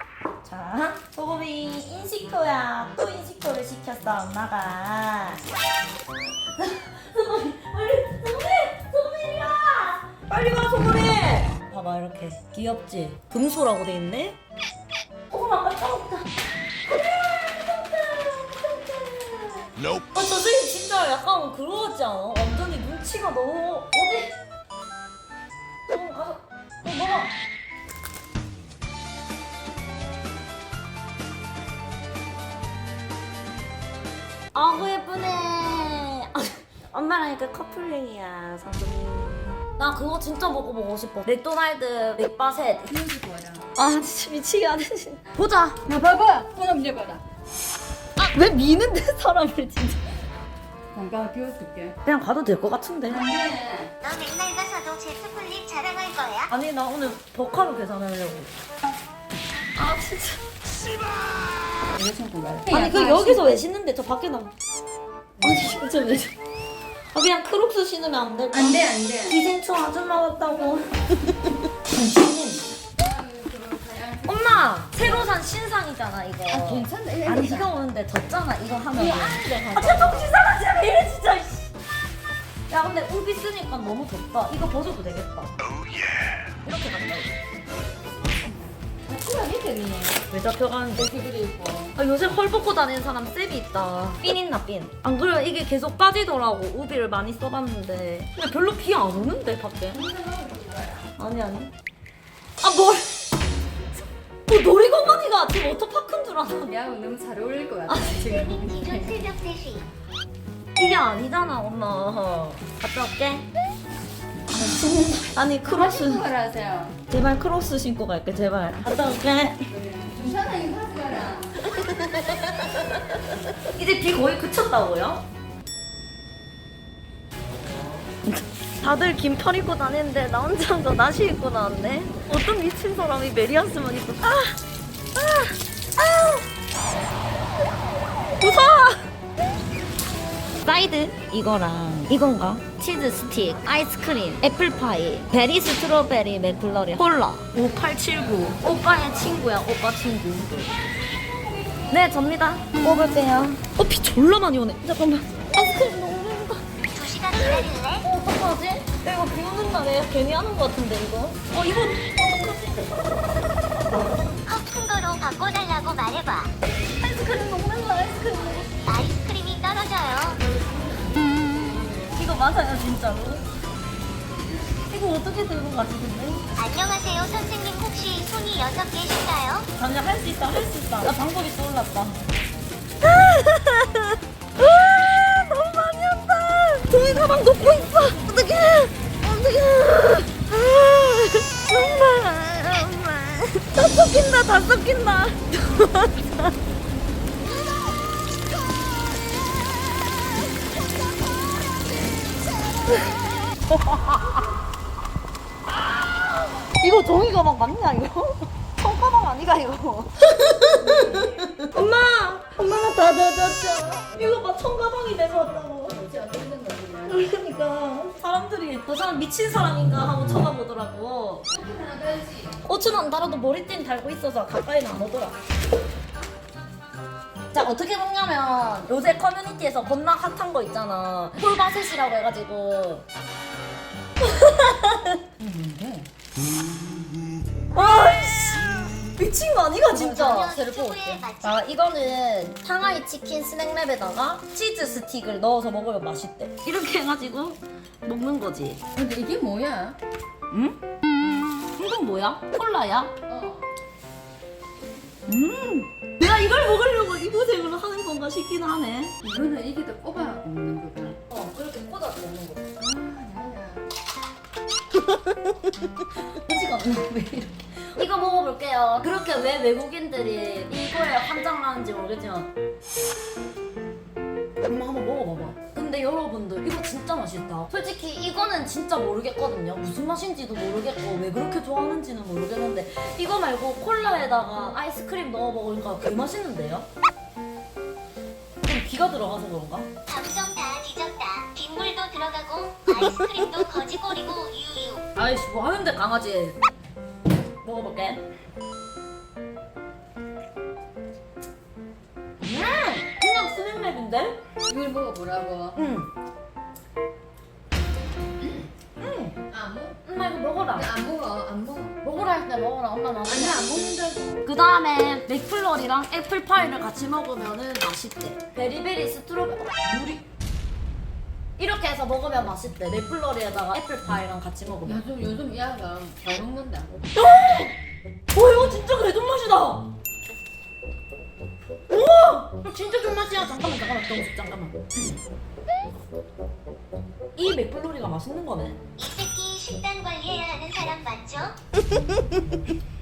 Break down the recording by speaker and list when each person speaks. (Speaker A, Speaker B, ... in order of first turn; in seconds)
Speaker A: 0.4-5.4, 6.6-14.4, 15.3-16.3, 16.9-24.3, 25.9-27.3, 34.5-42.9, 43.7-45.8, 48.2-50.0, 52.0-53.2, 56.5-58.5, 59.8-60.4, 62.7-64.5, 65.4-66.3, 67.1-70.9, 71.9-72.6, 74.2-81.7, 82.7-85.5, 86.6-87.3, 90.3-91.1, 92.0-100.0, 101.2-101.7, 102.6-103.2, 104.5-106.8, 107.9-108.2, 110.8-113.5, 114.5-116.2, 117.1-119.7, 121.6-123.0, 123.6-125.2, 128.2-134.6, 135.2-136.4, 138.4-139.0, 140.6-150.7, 151.9-156.6, 157.4-163.1, 163.8-164.2, 167.0-168.7, 172.0-173.4, 174.9-176.5, 179.8-182.2, 183.0-196.4, 203.7-204.4, 205.8-216.0, 217.1-221.4, 222.6-225.3, 227.5-233.0, 234.2-236.0, 237.7-240.5, 241.4-248.8, 250.5-250.8, 251.8-253.1, 255.3-259.2, 261.3-262.7, 266.3-272.5, 274.6-286.9, 288.6-289.9, 292.9-293.4, 295.1-296.6, 297.6-298.2, 302.4-304.4, 305.7-306.1, 309.0-309.4, 310.0-310.9, 312.0-313.6, 314.4-320.2, 321.6-325.0, 327.1-327.8, 328.3-329.9, 331.9-334.8, 337.4-338.8
Speaker B: 42.9-43.6, 45.7-47.2, 50.9-52.0, 53.1-53.9, 61.9-63.5, 65.4-65.8, 68.5-69.4, 73.0-74.7, 76.5-77.7, 78.9-80.2, 88.2-90.2, 90.9-92.0, 99.9-101.1, 106.6-109.2, 115.6-117.0, 119.7-121.6, 210.8-211.4, 215.9-217.2, 221.5-222.6, 239.9-241.2, 248.9-250.0, 253.3-253.7, 259.2-261.2, 262.8-263.9, 304.7-305.8, 309.5-310.0, 310.7-312.0, 313.3-314.4, 324.8-326.9
Speaker C: 54.0-56.5, 108.1-109.9, 156.9-158.1, 164.5-166.5, 168.9-170.4, 176.6-179.7, 240.1-241.6, 290.1-295.0, 339.0-341.6